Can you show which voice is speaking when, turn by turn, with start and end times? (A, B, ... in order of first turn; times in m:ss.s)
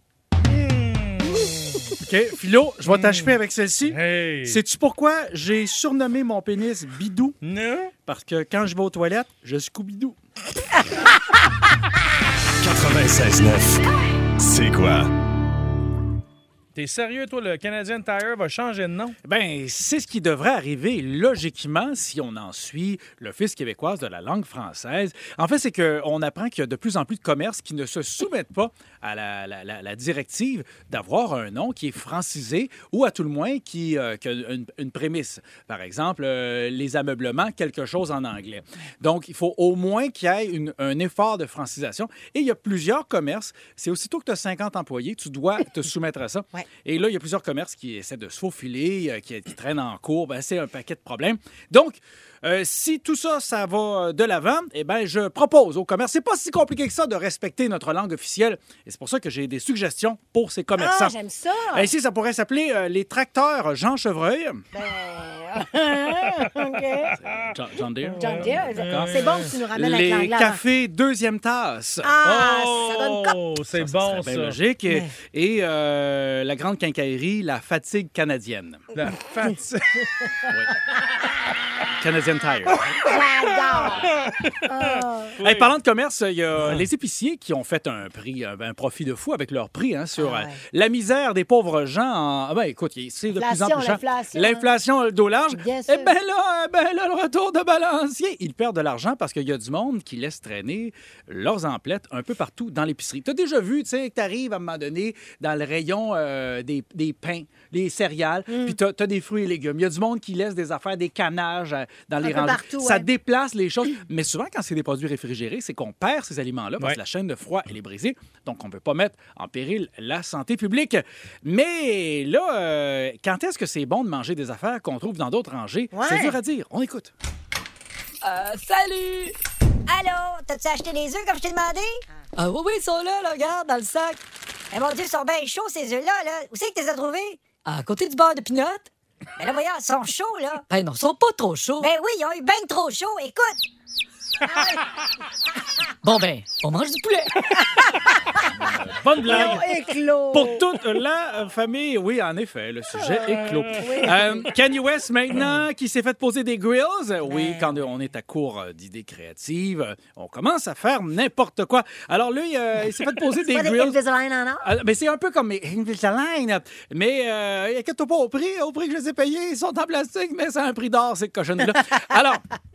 0:00.4-0:02.0 A
0:01.2-0:01.8 B
0:02.0-0:07.4 C
0:02.8-0:03.4 A
0:03.9-0:04.6 A
0:07.4-0:07.9 A
0:08.1-0:10.2 C
0:12.6-0:13.8 D
0:14.4-0:15.1 D
0:16.8-0:19.2 A
0:19.2-1:01.1 C
1:00.8-1:01.9 B
1:01.7-1:04.6 C
1:04.7-1:07.1 B
1:07.2-1:12.2 C
1:07.2-1:07.5 A
1:08.1-1:09.5 A
1:08.1-1:10.6 B
1:12.0-1:13.4 B
1:12.2-1:14.6 A
1:13.7-1:18.9 C
1:18.9-1:20.0 A
1:22.0-1:22.9 C
1:23.0-1:24.1 B
1:24.2-1:25.7 A
1:24.6-1:25.4 B
1:25.4-2:07.1 C
1:30.2-1:30.6 B
1:33.4-1:34.7 B
1:35.5-1:36.1 B
1:48.5-1:48.7 B
1:52.2-1:53.1 B
2:05.9-2:06.4 B
2:08.2-2:09.3 E
2:09.9-2:12.0 F
2:12.4-2:13.2 E
2:13.1-2:14.2 F
2:14.7-2:17.4 F
2:17.6-2:18.6 E
2:18.1-2:18.8 F
2:19.4-2:20.6 F
2:20.7-2:21.9 E
2:21.8-2:23.6 F
2:24.5-2:24.8 B
2:26.0-2:27.6 E
2:27.8-2:28.5 B
2:28.5-2:29.7 C
2:29.2-2:30.7 B
2:30.3-2:44.0 C
2:33.7-2:34.5 B
2:37.3-2:37.8 B
2:43.4-2:44.7 B
2:44.6-2:52.4 C